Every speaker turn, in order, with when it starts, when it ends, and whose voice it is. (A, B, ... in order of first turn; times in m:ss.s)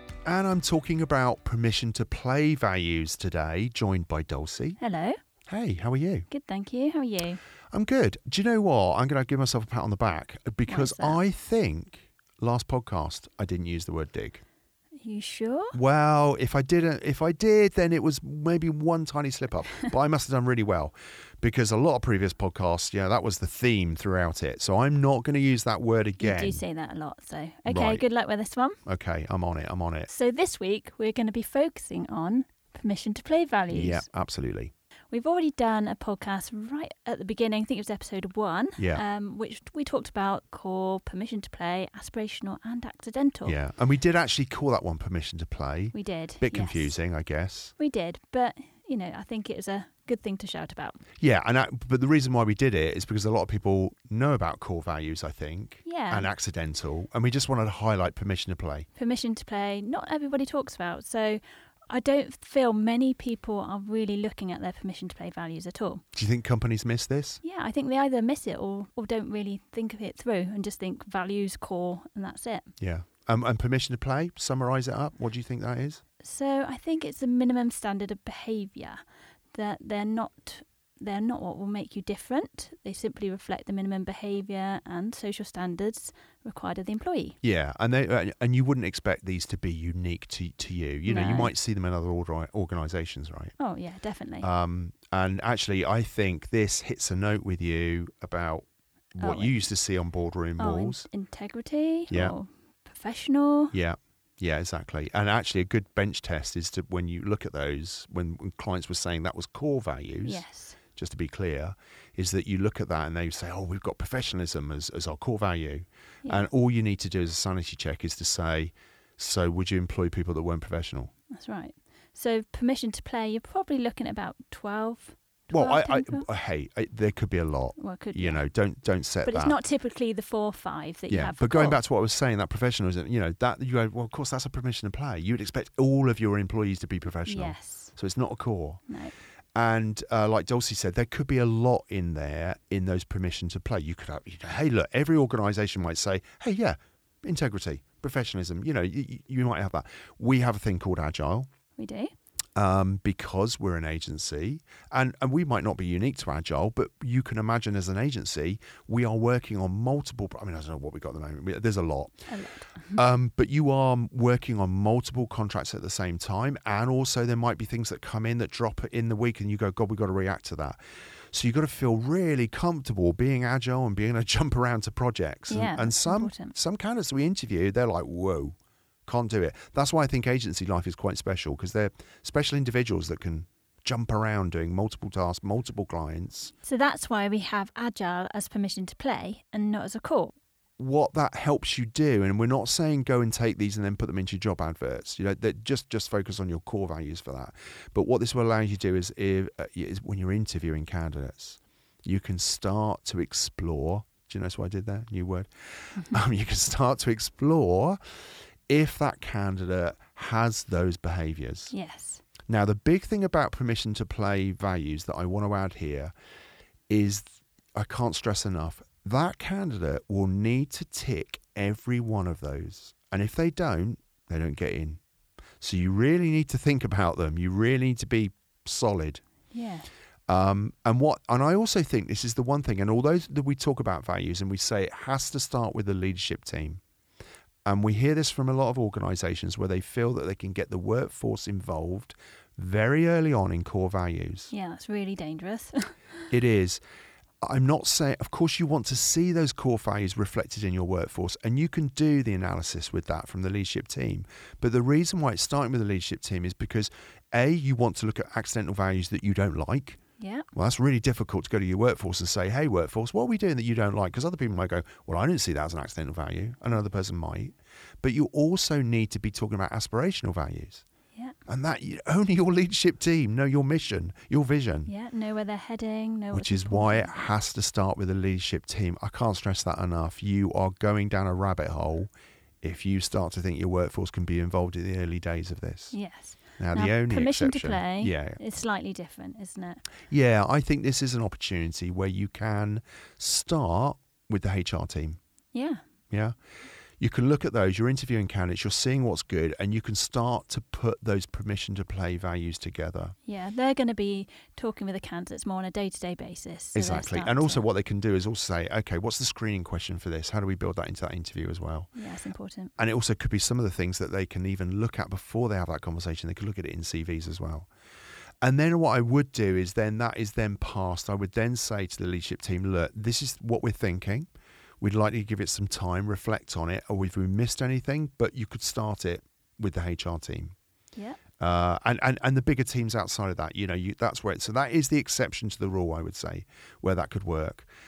0:00.2-0:04.8 A
0:04.8-0:05.2 B
0:05.5-0:06.3 A
0:06.3-0:07.4 B
0:07.7-0:14.4 A
0:10.7-0:11.2 B
0:15.0-0:15.8 B
0:15.7-0:26.6 A
0:26.2-0:28.8 B
0:27.7-0:28.0 A
0:28.8-0:30.1 A
0:30.1-0:34.0 B
0:33.7-0:34.7 A
0:35.1-0:43.6 B
0:38.8-0:39.0 A
0:43.4-0:47.7 A
0:45.9-0:46.9 B
0:47.8-0:51.0 B
0:51.2-0:58.9 A
0:55.8-0:56.3 B
0:59.0-1:06.0 B
1:06.1-1:07.4 A
1:07.4-1:12.7 B
1:12.8-1:16.0 A
1:16.2-1:19.0 B
1:19.5-1:27.4 B
1:27.4-1:33.5 A
1:31.0-1:31.5 B
1:33.6-1:34.5 B
1:34.4-1:38.6 A
1:39.2-1:41.0 A
1:39.2-1:39.6 B
1:40.6-1:43.7 B
1:43.7-2:01.1 A
1:50.2-1:50.8 B
1:56.2-1:56.5 B
2:01.3-2:06.3 B
2:05.5-2:09.6 A
2:07.8-2:08.4 B
2:09.2-2:11.8 B
2:11.1-2:18.8 A
2:17.3-2:17.9 B
2:18.9-2:19.1 B
2:19.5-2:31.5 A
2:31.8-2:32.1 B
2:32.6-2:42.3 A
2:42.3-2:43.0 B
2:42.9-2:50.8 A
2:51.3-3:06.5 A
2:55.5-2:56.5 B
3:06.6-3:10.3 B
3:10.8-3:28.0 A
3:28.7-3:31.7 A
3:31.7-3:32.2 B
3:32.4-3:36.1 A
3:36.9-3:45.0 A
3:45.6-3:49.2 A
3:49.5-3:49.9 B
3:50.3-3:56.8 A
3:57.6-4:04.5 A
4:04.5-4:06.3 B
4:06.3-4:06.8 A
4:07.4-4:20.0 A
4:20.2-4:20.5 B
4:20.5-4:30.8 A
4:31.5-4:34.9 A
4:34.8-4:37.1 B
4:36.3-4:42.1 A
4:42.6-4:46.0 A
4:45.9-4:49.9 B
4:46.6-4:48.4 A
4:50.1-4:55.2 A
4:55.5-4:55.8 B
4:56.1-4:56.4 A
4:57.0-5:03.1 A
5:03.2-5:07.6 B
5:06.7-5:11.9 A
5:11.9-5:12.7 B
5:12.8-5:17.7 A
5:18.4-5:24.3 A
5:24.8-5:30.5 A
5:30.9-5:31.2 B
5:31.4-5:37.7 A